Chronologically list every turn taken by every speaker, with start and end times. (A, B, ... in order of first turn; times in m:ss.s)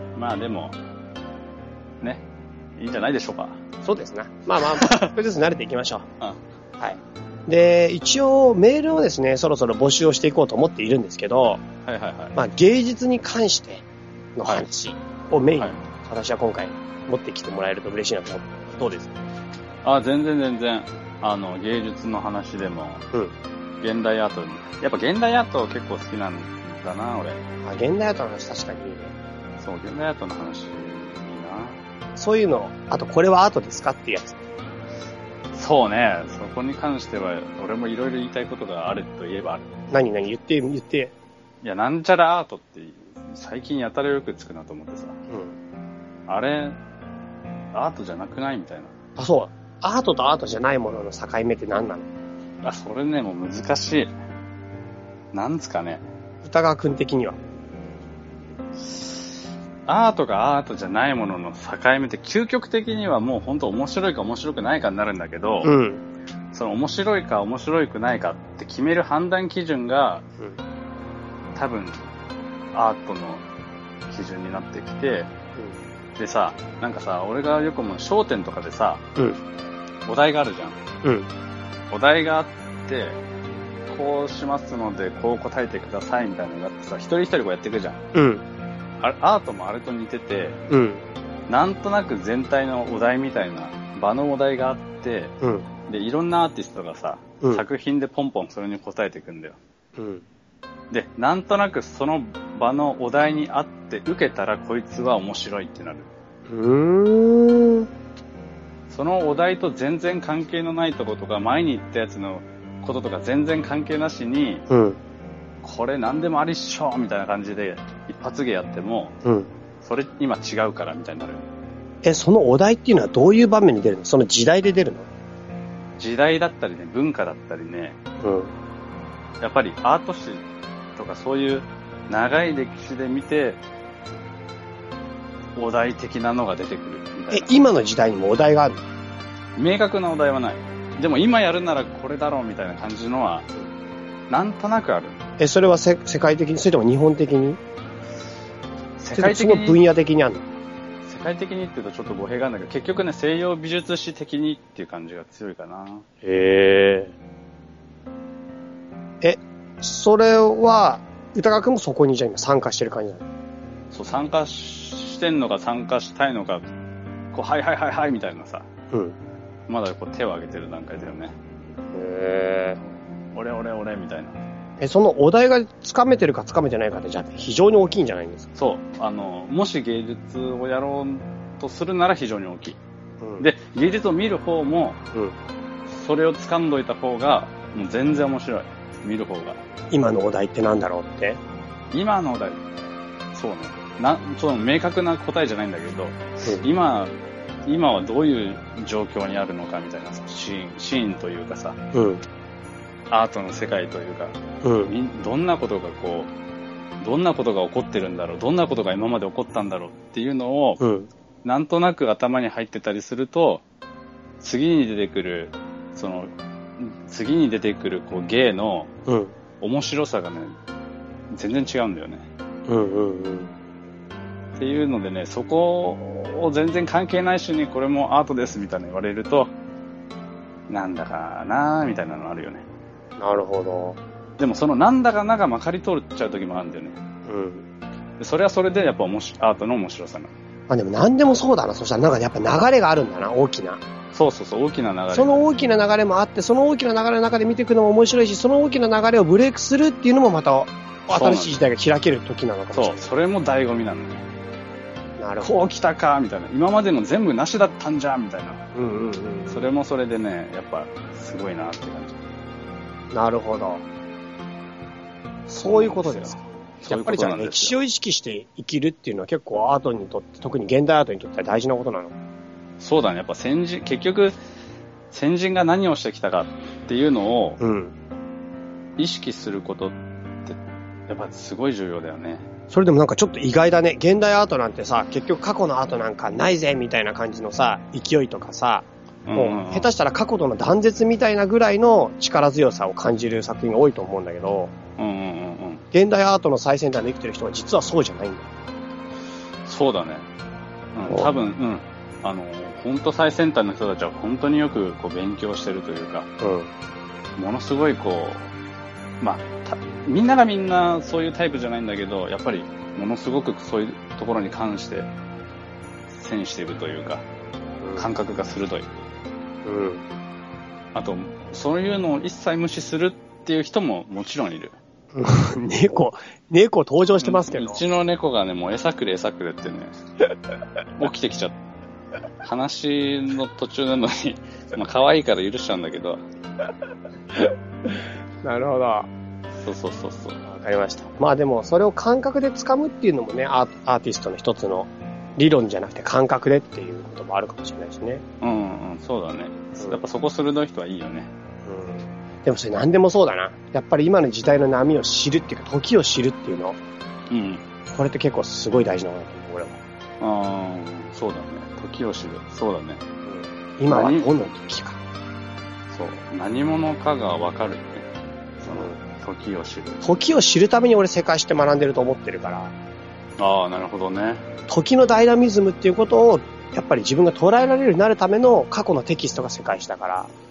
0:00.2-0:00.8 A
0:02.8-0:03.6 A
0:03.8-0:06.1 B
0:04.6-0:05.1 A
0:06.8-0:11.6 B
0:11.8-0:12.4 A
0:12.4-0:13.8 B
0:14.4-0:19.2 B
0:19.8-0:23.1 A
0:23.8-0:27.4 A
0:27.6-0:29.2 B
0:29.6-0:31.8 A
0:32.2-0:34.4 B
0:35.5-0:39.7 A
0:39.9-0:41.1 B
0:41.6-0:45.2 A
0:45.3-0:45.6 B
0:46.3-0:46.8 A
0:47.7-0:48.9 A
0:49.2-0:52.1 B
0:52.6-0:54.1 A
0:55.3-0:56.1 A
0:56.4-0:57.4 B
0:58.8-1:05.7 A
1:05.6-1:06.0 B
1:06.5-1:10.2 A
1:11.6-1:12.0 A
1:12.7-1:13.4 A
1:14.1-1:15.3 A
1:16.2-1:19.0 A
1:20.0-1:20.8 A
1:21.0-1:21.3 B
1:21.9-1:23.2 A
1:23.9-1:28.0 A
1:28.1-1:28.4 B
1:29.0-1:30.6 A
1:30.7-1:31.0 B
1:31.5-1:35.3 A
1:35.4-1:35.7 B
1:35.9-1:39.6 A
1:40.0-1:40.2 B
1:40.9-1:46.1 A
1:46.5-1:47.9 B
1:48.9-1:54.6 A
1:54.7-1:55.0 B
1:55.6-1:59.2 A
1:59.2-1:59.5 B
1:59.8-2:01.4 A
2:02.0-2:05.1 B
2:06.0-2:08.0 A
2:08.2-2:08.5 B
2:09.4-2:10.4 A
2:11.0-2:13.6 A
2:15.6-2:17.5 A
2:17.3-2:18.8 B
2:19.6-2:23.5 A
2:24.3-2:25.2 A
2:25.4-2:27.6 B
2:29.0-2:29.8 A
2:29.1-2:30.5 B
2:31.0-2:36.0 A
2:36.2-2:37.1 B
2:39.2-2:43.3 B
2:43.9-2:46.7 A
2:47.3-2:48.7 A
2:48.9-2:49.2 B
2:49.7-2:51.4 A
2:51.9-2:52.8 B
2:52.8-2:54.4 A
2:54.8-2:58.5 B
2:58.6-3:02.8 A
3:03.2-3:03.5 B
3:03.4-3:05.0 A
3:05.9-3:09.6 A
3:09.9-3:11.4 B
3:11.9-3:12.6 A
3:13.3-3:21.8 A
3:21.9-3:22.2 B
3:23.1-3:26.3 A
3:24.6-3:24.9 B
3:27.0-3:30.8 A
3:30.8-3:31.1 B
3:31.4-3:33.6 A
3:34.4-3:38.9 A
3:39.1-3:39.4 B
3:39.6-3:40.6 A
3:41.3-3:42.3 A
3:42.7-3:43.5 B
3:44.6-3:49.5 A
3:50.7-3:52.6 A
3:53.2-3:54.0 B
3:54.4-3:57.0 A
3:57.3-3:57.7 B
3:58.2-4:00.3 A
4:00.7-4:03.8 B
4:04.1-4:05.5 A
4:05.1-4:13.1 B
4:11.1-4:11.6 A
4:12.7-4:14.3 A
4:15.2-4:15.5 B
4:15.4-4:18.7 A
4:18.7-4:19.7 B
4:19.5-4:22.2 A
4:23.1-4:23.8 B
4:25.5-4:32.1 B
4:25.6-4:27.8 A
4:32.8-4:34.4 A
4:35.1-4:37.6 A
4:37.6-4:37.9 B
4:39.0-4:42.5 A
4:42.7-4:54.7 B
4:49.2-4:49.9 A
4:55.0-4:55.8 A
4:55.9-4:58.5 B
4:59.6-5:00.3 A
5:00.9-5:06.3 A
5:01.1-5:01.3 B
5:06.4-5:06.7 B
5:07.4-5:08.5 A
5:09.2-5:15.1 A
5:16.1-5:17.2 A
5:17.8-5:18.1 B
5:18.0-5:18.9 A
5:19.6-5:20.0 B
5:20.9-5:24.8 A
5:25.2-5:27.8 B
5:27.2-5:30.0 A
5:31.0-5:31.6 A
5:32.4-5:36.2 A
5:37.4-5:39.1 B
5:39.6-5:40.4 A
5:40.4-5:48.2 B
5:48.4-5:51.3 A
5:51.7-5:56.8 B
5:57.3-5:57.6 A
5:57.9-5:59.8 B
6:00.2-6:03.0 A
6:03.3-6:05.0 B
6:03.9-6:04.3 A
6:05.9-6:08.1 A
6:08.6-6:10.0 A
6:08.6-6:09.0 B
6:10.0-6:12.7 B
6:13.4-6:14.4 A
6:14.7-6:20.3 B